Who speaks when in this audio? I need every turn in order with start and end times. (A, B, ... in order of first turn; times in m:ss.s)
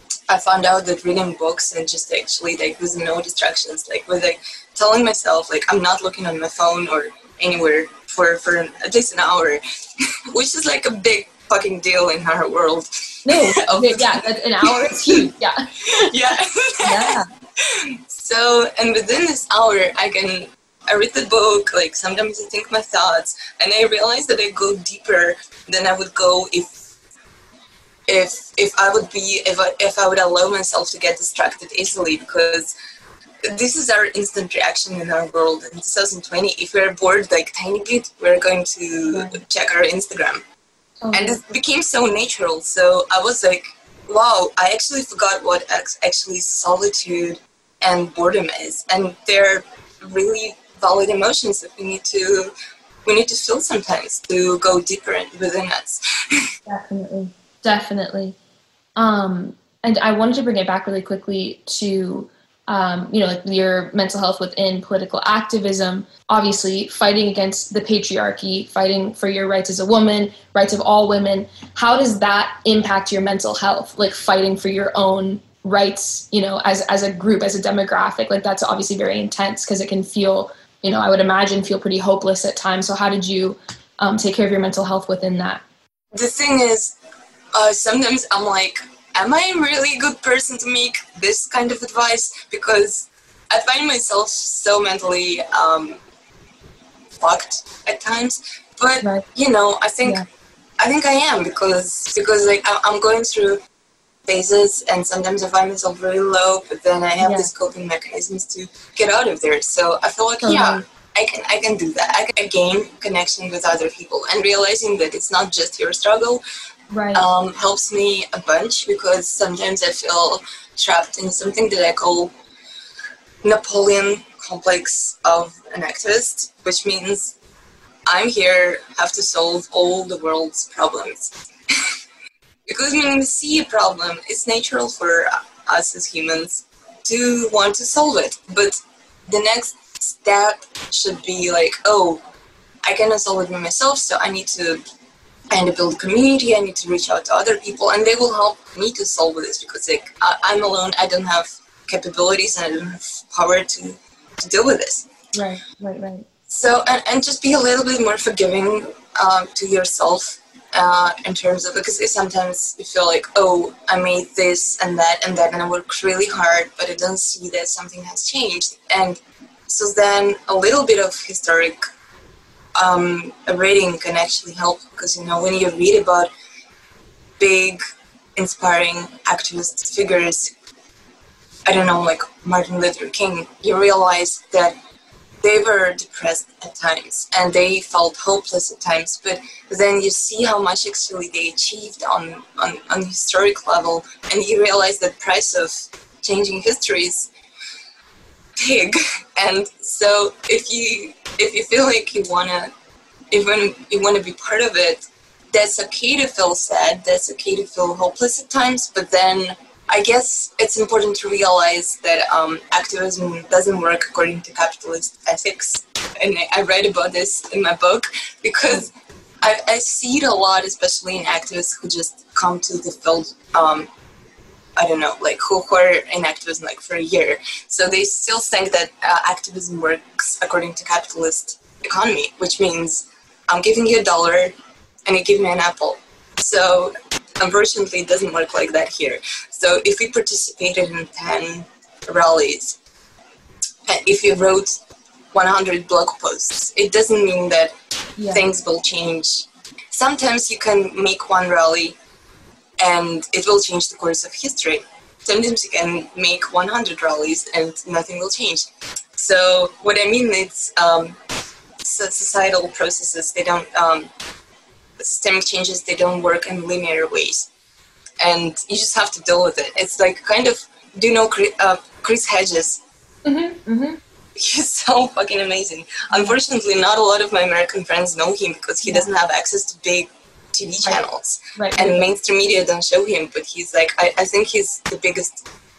0:00.3-0:09.6 A
0:10.3-0:15.2 A
0:13.2-0:16.2 B
0:16.0-0:26.7 A
0:16.8-0:17.3 B
0:28.1-0:32.7 A
0:33.4-0:40.4 A
0:39.1-0:39.4 B
0:41.0-0:41.4 B
0:41.1-0:52.5 A
0:53.0-0:56.4 A
0:56.7-0:58.4 B
0:59.0-1:25.6 B
1:26.1-1:27.0 A
1:27.5-1:36.0 A
1:37.2-1:40.2 A
1:40.8-1:43.6 A
1:44.3-1:56.4 A
1:47.2-1:47.5 B
1:50.4-1:50.8 B
1:56.9-1:57.2 B
1:57.1-2:02.3 A
2:03.4-2:07.3 A
2:08.1-2:11.3 A
2:12.7-2:18.8 A
2:19.3-2:22.2 A
2:22.8-2:24.8 A
2:25.5-2:35.1 A
2:35.3-2:36.2 B
2:36.5-2:51.8 A
2:52.8-2:56.3 A
2:57.4-2:57.8 A
2:58.4-3:00.5 A
3:01.6-3:04.8 A
3:05.4-3:17.3 A
3:18.6-3:22.7 A
3:23.3-3:43.9 A
3:44.8-3:54.5 A
3:55.1-4:02.8 A
4:03.9-4:04.8 A
4:05.3-4:07.7 A
4:08.2-4:08.4 B
4:08.3-4:12.0 A
4:12.8-4:21.2 A
4:21.8-4:24.1 A
4:25.0-4:27.5 A
4:28.2-4:32.8 A
4:33.2-4:34.0 B
4:34.3-4:45.4 A
4:36.1-4:36.4 B
4:41.6-4:42.0 B